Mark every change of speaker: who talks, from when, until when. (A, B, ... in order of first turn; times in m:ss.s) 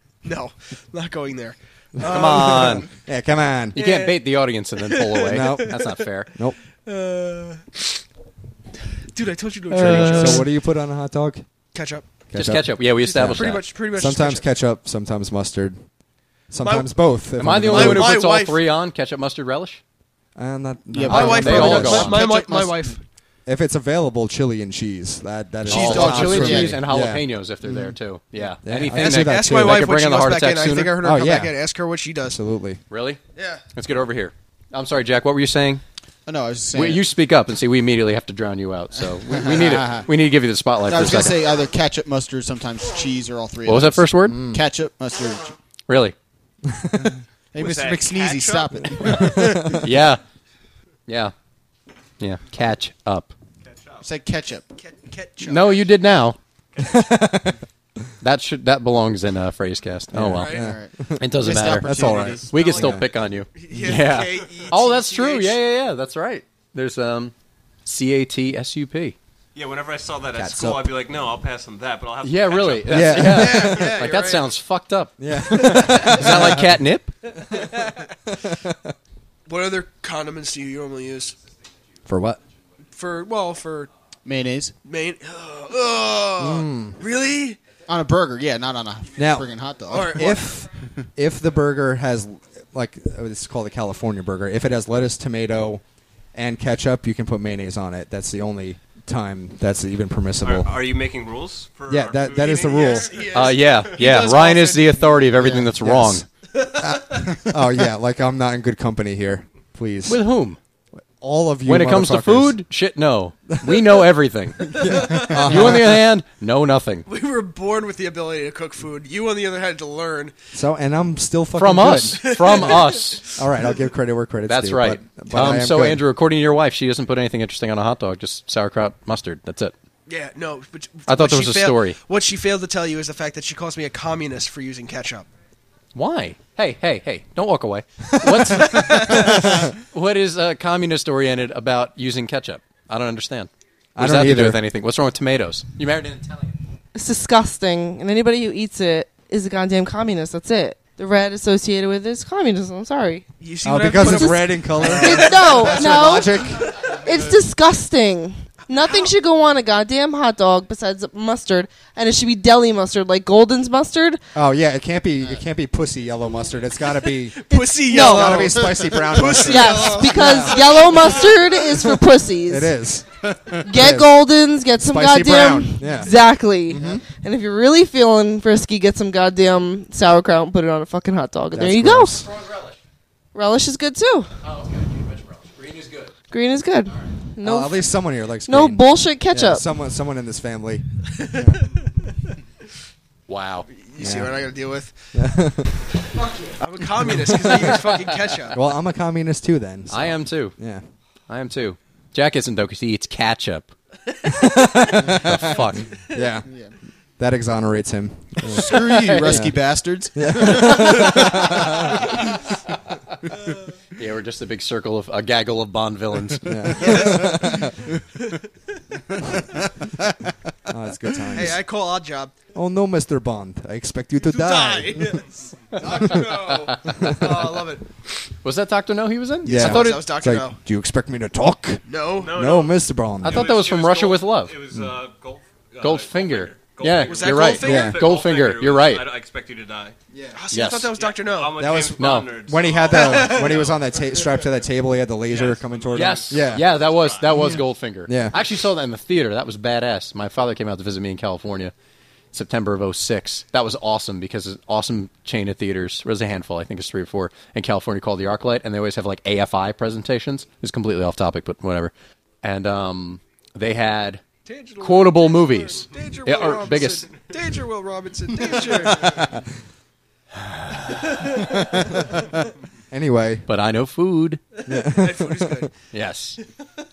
0:00.2-0:02.9 A
0:02.0-0:02.9 B
0:02.2-0:03.8 C
0:03.7-0:06.3 B
0:03.7-0:04.2 A
0:04.8-0:06.0 A
0:05.2-0:05.8 C
0:06.8-0:07.9 A
0:09.1-0:10.5 A
0:09.7-0:10.5 B
0:09.8-0:11.4 C
0:11.7-0:12.1 A
0:12.3-0:15.8 C
0:12.3-0:13.6 B
0:13.0-0:14.4 A
0:16.5-0:18.2 C
0:16.6-0:17.0 A
0:17.4-0:19.8 B
0:17.7-0:18.6 A
0:20.4-0:22.2 C
0:20.9-0:22.9 D
0:21.0-0:23.0 A
0:21.1-0:22.2 B
0:23.4-0:27.9 C
0:25.7-0:26.8 D
0:25.7-0:30.9 B
0:26.0-0:26.5 A
0:28.6-0:29.9 C
0:28.9-0:32.4 A
0:31.0-0:31.5 C
0:32.3-0:32.8 C
0:32.9-0:33.2 B
0:33.4-0:33.6 A
0:33.7-0:35.8 B
0:36.2-0:37.1 D
0:36.7-0:41.4 B
0:39.2-0:40.1 D
0:40.9-0:45.5 D
0:43.6-0:44.4 B
0:44.3-0:44.6 C
0:45.9-0:46.1 B
0:46.6-0:47.2 C
0:47.0-0:49.8 D
0:47.6-0:49.2 E
0:49.0-0:49.9 C
0:49.6-0:50.2 B
0:51.1-0:51.3 B
0:52.2-0:53.3 B
0:53.6-0:54.0 E
0:54.0-0:54.6 D
0:54.8-0:55.9 A
0:55.4-0:56.4 B
0:56.7-0:57.3 E
0:56.8-0:57.6 C
0:58.2-1:00.5 B
1:00.1-1:03.0 C
1:00.3-1:00.7 A
1:00.5-1:02.5 D
1:01.2-1:07.3 B
1:02.6-1:03.0 E
1:03.6-1:05.6 A
1:07.8-1:09.2 B
1:09.5-1:13.2 E
1:10.4-1:11.0 C
1:12.2-1:17.1 B
1:12.9-1:14.0 C
1:13.2-1:14.5 A
1:15.2-1:16.8 C
1:15.5-1:16.2 A
1:17.4-1:18.1 A
1:18.3-1:18.9 C
1:19.5-1:21.3 A
1:22.0-1:22.4 C
1:23.0-1:23.9 A
1:24.2-1:24.7 D
1:24.8-1:27.6 A
1:26.4-1:27.0 C
1:27.9-1:30.4 D
1:29.2-1:35.8 C
1:29.9-1:30.5 A
1:36.3-1:40.8 C
1:40.4-1:43.8 E
1:41.9-1:43.1 C
1:42.8-1:45.3 A
1:43.3-1:46.2 B
1:45.4-1:46.2 C
1:46.5-1:47.4 A
1:46.8-1:50.2 C
1:50.1-1:50.6 B
1:51.2-1:52.6 C
1:51.6-1:57.1 B
1:53.5-1:54.0 C
1:54.6-1:56.0 C
1:54.8-1:55.6 A
1:57.1-2:00.3 A
2:00.5-2:02.8 C
2:01.6-2:03.2 B
2:02.2-2:03.5 A
2:03.3-2:06.0 C
2:04.5-2:09.7 B
2:10.1-2:15.3 A
2:11.1-2:12.0 B
2:15.9-2:26.5 B
2:18.6-2:19.4 A
2:24.0-2:24.6 C
2:26.9-2:33.2 F
2:33.4-2:37.0 A
2:33.6-2:36.8 C
2:34.0-2:44.2 F
2:38.8-2:39.1 A
2:44.3-2:50.9 C
2:47.3-2:51.5 A
2:47.5-2:48.5 F
2:49.4-2:52.7 F
2:51.6-2:54.1 C
2:53.6-3:02.2 F
2:54.8-2:56.2 C
2:56.7-2:57.0 C
2:56.7-2:57.0 D
3:01.5-3:02.2 C
3:02.1-3:02.8 B
3:03.3-3:04.3 F
3:04.4-3:06.1 B
3:06.3-3:07.8 F
3:07.4-3:11.6 C
3:08.5-3:09.6 F
3:11.2-3:11.7 A
3:13.3-3:13.6 B
3:13.8-3:15.1 A
3:14.0-3:14.4 C
3:15.1-3:15.7 C
3:16.2-3:18.6 A
3:17.0-3:17.8 C
3:18.5-3:20.8 C
3:19.9-3:20.5 B
3:21.3-3:23.7 B
3:24.2-3:26.5 C
3:25.0-3:25.9 B
3:26.4-3:26.7 D
3:27.2-3:29.6 C
3:28.4-3:31.8 D
3:30.1-3:32.2 C
3:34.0-3:36.8 B
3:36.4-3:37.8 C
3:36.7-3:38.4 A
3:40.6-3:41.6 C
3:41.3-3:42.3 A
3:42.5-3:45.2 C
3:44.2-3:47.8 A
3:45.8-3:46.3 C
3:46.9-3:47.4 C
3:48.4-3:50.0 B
3:49.4-3:50.6 A
3:49.4-3:53.5 C
3:51.8-3:52.4 A
3:52.2-4:00.0 E
3:53.2-3:54.6 B
3:55.8-3:59.1 B
3:57.0-3:58.0 A
3:57.6-3:58.0 C
4:00.1-4:00.4 C
4:00.3-4:01.8 A
4:00.5-4:00.9 B
4:01.0-4:03.8 E
4:01.6-4:06.7 C
4:02.0-4:02.3 B
4:02.9-4:03.6 A
4:05.2-4:07.3 E
4:05.9-4:11.7 B
4:07.3-4:08.4 C
4:12.3-4:21.9 B
4:22.4-4:24.2 B
4:24.4-4:29.3 A
4:24.8-4:27.1 B
4:28.7-4:29.4 C
4:30.4-4:31.0 B
4:31.0-4:31.6 A
4:31.4-4:33.5 C
4:33.5-4:34.4 B
4:34.6-4:35.7 A
4:34.6-4:35.7 C
4:35.9-4:36.4 B